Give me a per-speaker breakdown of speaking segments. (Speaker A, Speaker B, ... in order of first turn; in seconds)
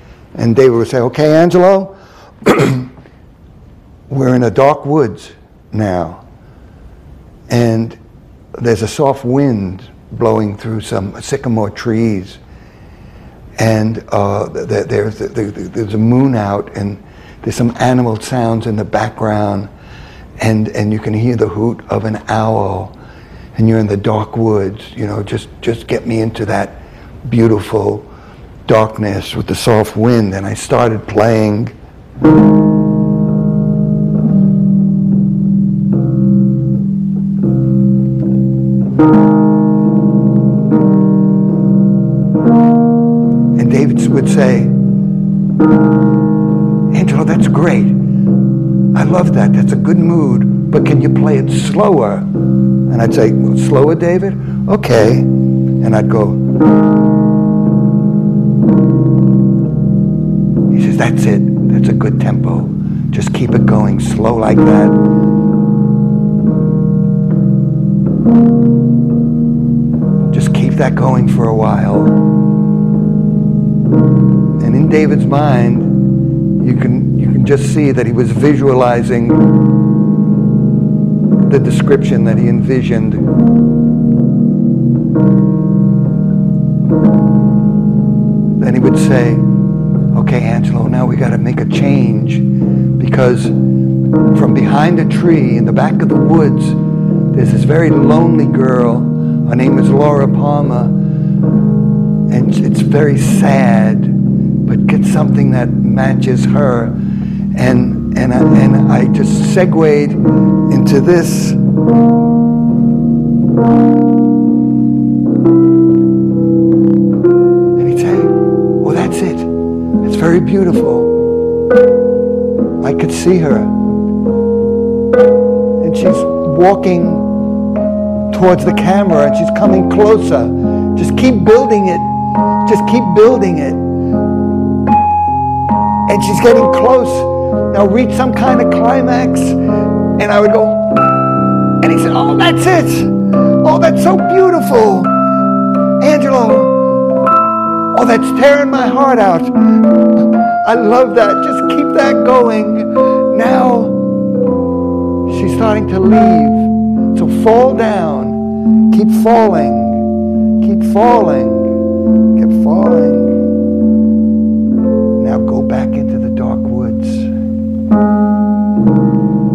Speaker A: 0.3-2.9, 4.1-6.2, 7.5-8.0, 8.6-12.4, 13.6-19.7, 20.4-23.0, 23.5-28.1, 28.7-31.7, 43.5-44.7, 46.9-48.0, 48.9-52.3, 52.9-56.4, 60.7-65.1, 70.3-72.2, 74.6-76.0, 76.6-79.5, 81.4-83.2, 88.6-89.5, 90.1-93.5, 94.3-96.8, 97.3-101.0, 102.3-107.0, 107.5-111.6, 117.8-121.1, 122.8-123.8, 125.8-127.3, 128.3-132.1, 132.6-133.8, 136.1-139.6, 140.2-141.1, 141.8-145.1, 146.0-146.8, 147.9-149.6, 150.2-154.0, 155.3-160.0, 160.6-161.8, 162.3-163.4, 165.2-167.3